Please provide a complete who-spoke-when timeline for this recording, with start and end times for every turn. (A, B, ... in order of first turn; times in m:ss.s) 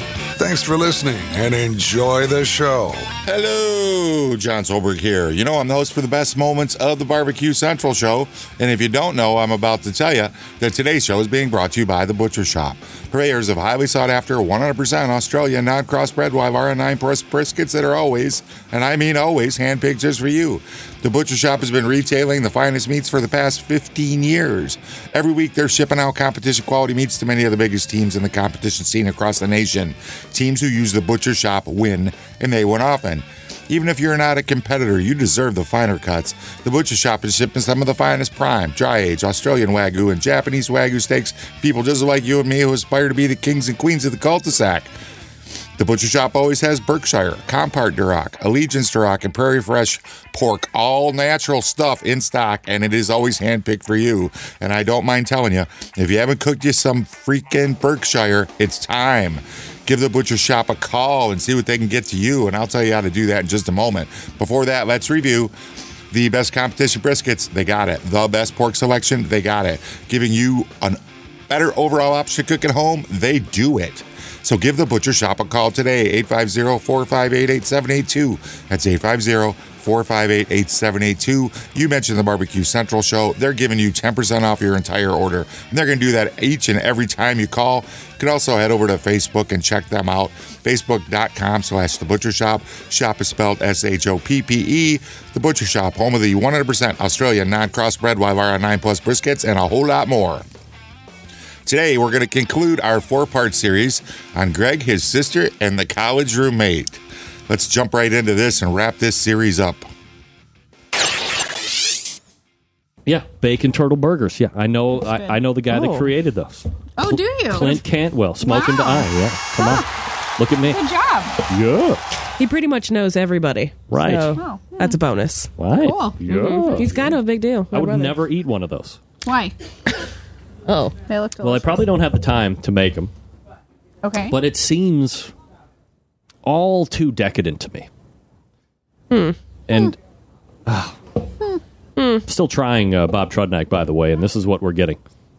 0:00.4-0:03.1 A
0:03.2-0:44.9 B
0:45.8-1:05.5 B
1:06.1-1:40.4 B
1:41.6-1:49.8 B
1:53.0-2:00.8 C
1:55.0-1:55.4 D
1:55.7-1:56.1 E
1:57.0-1:57.8 D
1:58.4-1:59.8 D
2:00.6-2:01.4 D
2:01.5-2:02.0 C
2:02.4-2:05.5 E
2:03.9-2:04.4 C
2:04.3-2:05.0 D
2:05.6-2:07.2 C
2:05.8-2:06.6 D
2:06.3-2:08.2 E
2:07.7-2:09.0 C
2:09.2-2:09.5 D
2:10.7-2:11.0 E
2:11.0-2:11.9 D
2:11.4-2:13.1 C
2:14.0-2:14.4 D
2:14.2-2:15.3 C
2:16.4-2:17.9 C
2:19.1-2:19.4 E
2:19.7-2:20.0 C
2:20.7-2:21.0 C
2:22.0-2:22.2 E
2:22.3-2:25.0 C